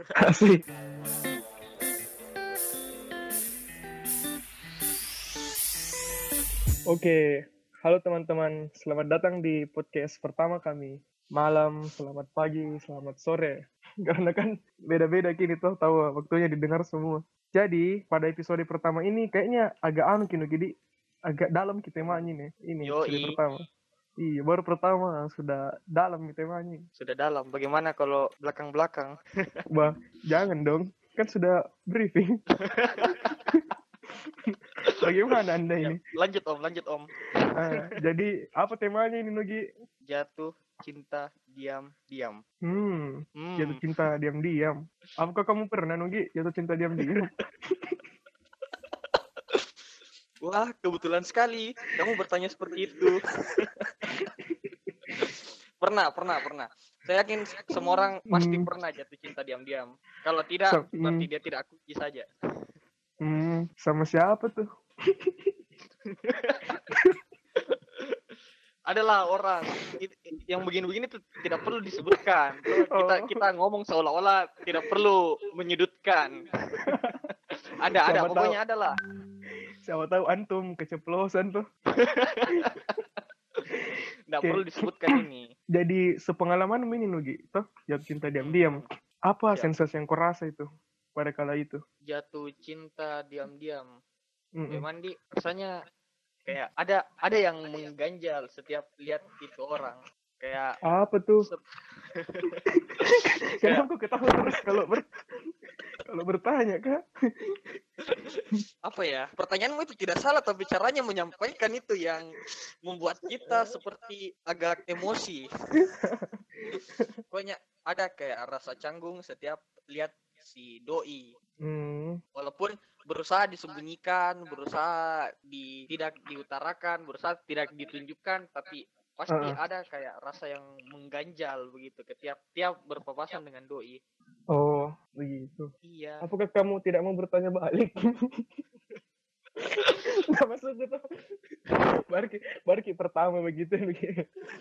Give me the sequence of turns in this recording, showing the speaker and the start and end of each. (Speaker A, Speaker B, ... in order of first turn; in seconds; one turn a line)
Speaker A: 0.2-0.6
Speaker A: 6.9-20.7
Speaker A: 21.3-23.6
Speaker B: 22.8-23.3
Speaker A: 24.2-26.8
Speaker B: 27.0-29.2
Speaker A: 29.7-32.4
Speaker B: 32.6-33.5
Speaker A: 33.1-33.6
Speaker A: 34.4-36.0
Speaker B: 35.8-37.9
Speaker A: 37.5-39.6
Speaker B: 40.1-42.4
Speaker A: 42.6-48.0
Speaker B: 43.4-43.8
Speaker B: 50.4-54.2
Speaker A: 54.1-55.2
Speaker B: 55.8-62.2
Speaker A: 57.7-58.7
Speaker A: 60.7-61.3
Speaker A: 63.2-65.5
Speaker B: 66.1-66.8
Speaker A: 66.9-67.2
Speaker B: 67.6-68.2
Speaker B: 68.9-76.9
Speaker A: 72.9-73.4
Speaker A: 76.8-77.3
Speaker B: 77.8-79.0
Speaker A: 78.0-78.6
Speaker A: 79.4-81.6
Speaker B: 81.9-83.0
Speaker B: 84.3-85.5
Speaker A: 84.4-85.1
Speaker A: 85.7-91.8
Speaker B: 88.4-88.8
Speaker B: 92.0-93.9
Speaker A: 94.5-94.8
Speaker B: 94.7-95.7
Speaker B: 96.5-100.8
Speaker A: 100.8-101.5
Speaker B: 102.1-102.6
Speaker A: 102.7-105.1
Speaker A: 106.0-108.6
Speaker B: 108.8-115.5
Speaker A: 115.8-117.1
Speaker B: 117.3-121.3
Speaker A: 121.6-122.2
Speaker B: 122.3-134.0
Speaker A: 129.3-129.6
Speaker A: 134.5-135.7
Speaker B: 135.8-136.2
Speaker A: 136.2-138.5
Speaker A: 139.8-141.0
Speaker A: 142.1-144.2